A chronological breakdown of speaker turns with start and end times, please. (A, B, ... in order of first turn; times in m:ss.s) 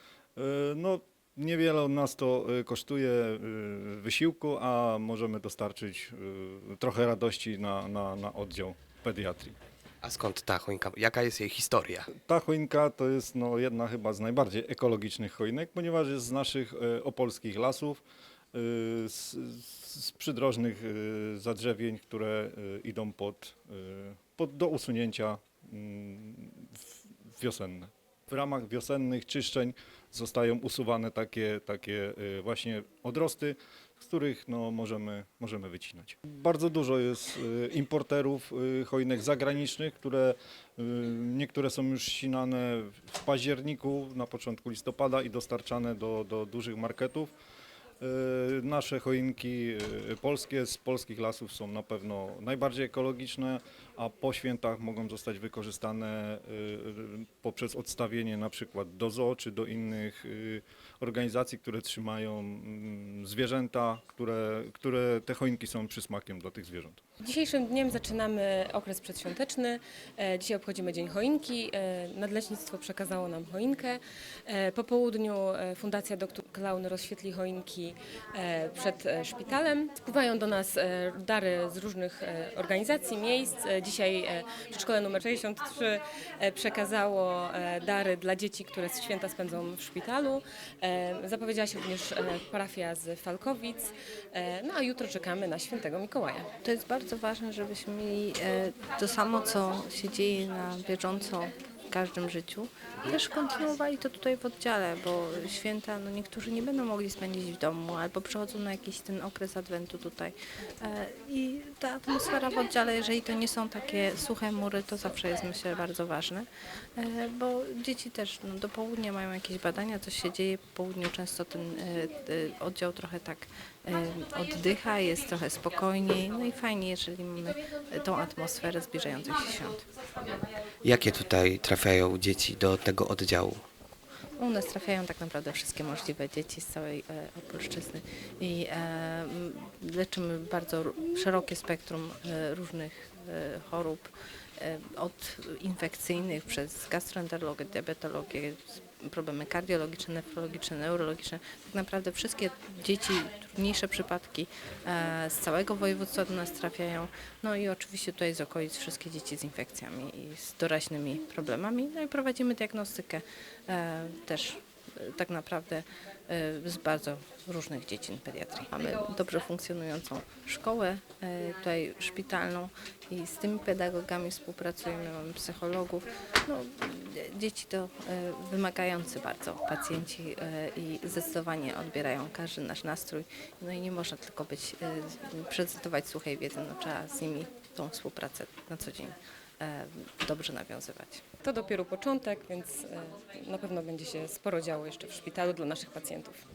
0:00.4-0:09.6 A
0:10.0-0:12.1 B
0:12.1-0:18.0 A
0:18.5-0:26.8 A
0:27.4-0:47.3 A
0:48.0-1:07.0 A
1:07.2-1:36.5 C
1:36.6-2:09.9 D
2:10.8-2:13.6 B
2:14.4-3:11.2 D
3:11.4-3:16.4 C